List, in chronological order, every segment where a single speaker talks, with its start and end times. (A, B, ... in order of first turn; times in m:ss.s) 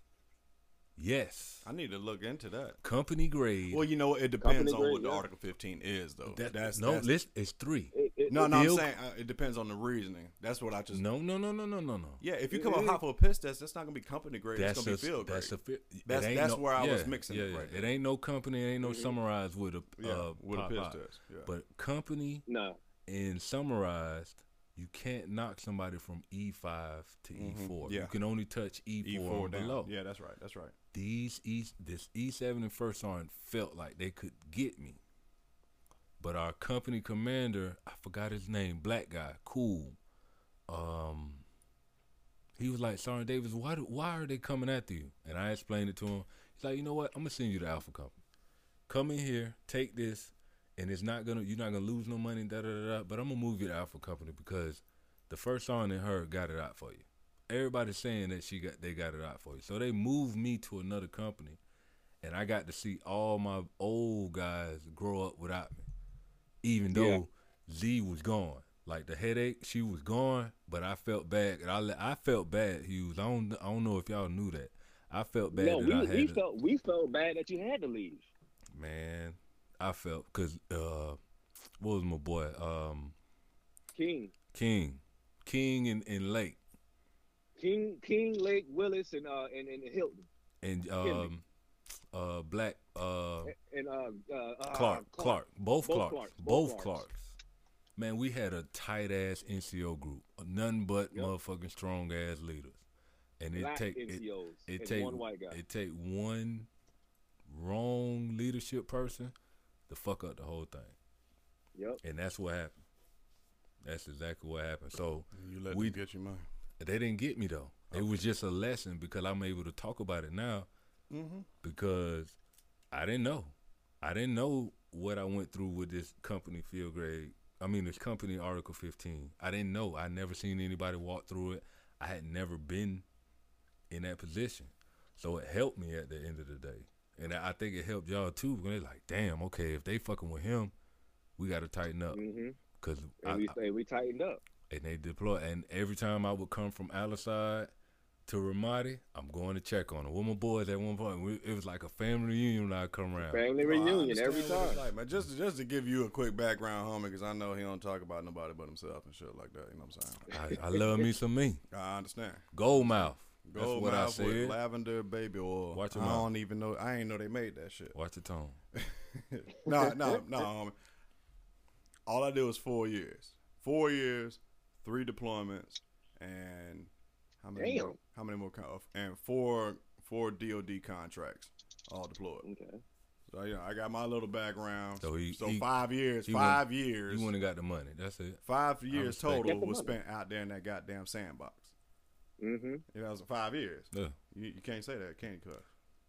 0:01.0-0:01.7 A
0:01.6-0:02.8 B
0:02.8-0:03.9 A
0:03.7-0:07.1 B
0:04.4-0:05.2 C
0:06.3-0:08.9 A
0:07.9-0:08.5 C
0:08.3-0:11.0 B
0:10.9-0:12.2 A
0:12.2-0:15.5 B
0:12.5-0:13.0 C
0:14.6-0:22.5 A
0:16.0-0:17.9 B
0:18.8-0:19.2 C
0:20.0-0:21.5 B
0:22.5-0:22.8 C
0:23.1-0:29.9 A
0:27.3-0:28.1 B
0:29.0-0:30.8 B
0:30.9-0:35.0 A
0:36.2-0:40.0 A
0:40.7-0:41.4 A
0:42.6-0:48.2 A
0:48.9-1:01.6 A
1:02.2-1:05.9 A
1:06.6-1:16.4 A
1:06.9-1:07.2 C
1:15.5-1:18.3 C
1:18.7-1:21.2 A
1:21.8-1:23.2 A
1:23.9-1:24.3 C
1:24.5-1:26.6 A
1:27.6-1:30.3 C
1:30.6-1:31.4 A
1:31.0-1:31.3 C
1:32.1-1:33.5 A
1:33.4-1:37.1 C
1:34.7-1:37.3 A
1:38.0-1:42.8 A
1:43.4-1:46.7 A
1:43.6-1:45.6 C
1:47.5-1:49.4 A
1:49.9-1:51.0 A
1:51.8-1:52.0 C
1:52.0-1:52.8 A
1:53.8-1:56.0 A
1:55.3-1:56.4 B
1:56.8-2:00.7 A
1:57.9-1:58.2 B
2:01.1-2:01.5 B
2:01.6-2:02.4 A
2:02.9-2:13.0 A
2:13.9-2:20.7 A
2:21.4-2:22.2 A
2:22.1-2:22.6 C
2:22.8-2:23.6 A
2:23.2-2:24.4 C
2:24.7-2:27.7 A
2:28.3-2:33.5 A
2:33.2-2:34.9 C
2:33.6-2:40.3 B
2:40.3-2:41.1 C
2:40.3-2:41.6 A
2:41.7-2:48.0 B
2:42.5-2:44.6 A
2:45.7-2:46.3 A
2:47.9-2:48.6 A
2:48.8-2:50.8 B
2:49.7-2:50.5 C
2:52.1-3:02.5 B
2:57.6-2:58.0 C
3:02.4-3:02.8 C
3:03.3-3:07.3 B
3:05.0-3:05.7 A
3:06.2-3:09.6 A
3:08.4-3:11.7 B
3:09.4-3:10.0 C
3:12.4-3:12.8 C
3:12.9-3:15.7 B